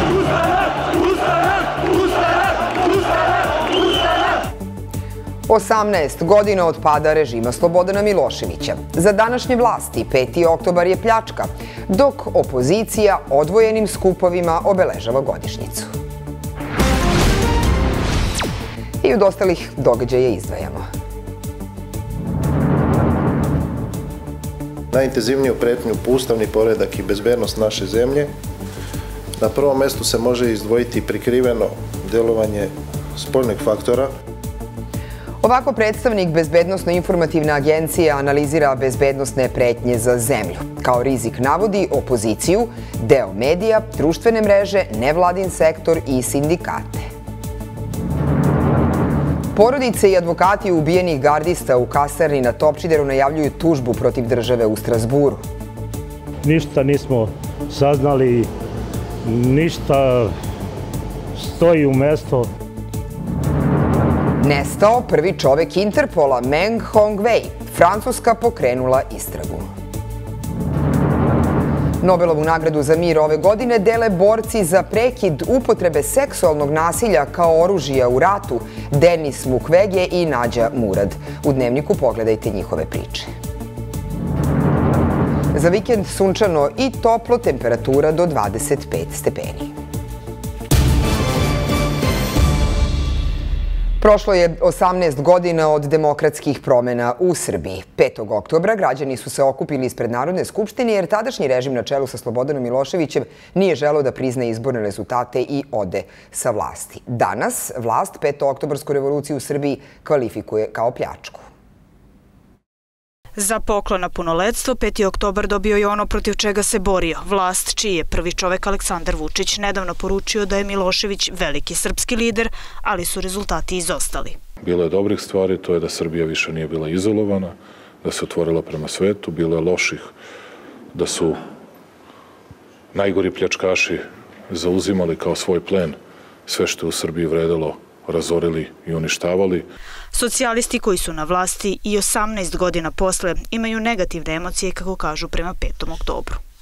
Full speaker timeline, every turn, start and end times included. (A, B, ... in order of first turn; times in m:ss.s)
0:05.5-0:15.9 A
0:19.0-0:20.8 A
0:24.9-0:28.3 B
0:29.4-0:34.1 B
0:35.4-0:47.1 A
0:49.6-0:55.4 A
0:56.4-0:58.5 C
0:59.2-1:00.3 C
1:01.4-1:02.5 C
1:04.4-1:09.7 A
1:12.0-1:23.3 A
1:25.5-1:29.7 A
1:34.0-1:51.4 A
1:53.4-2:04.4 D
2:04.6-2:10.1 E
2:10.9-2:11.4 E
2:12.9-2:19.7 E
2:20.1-2:26.4 D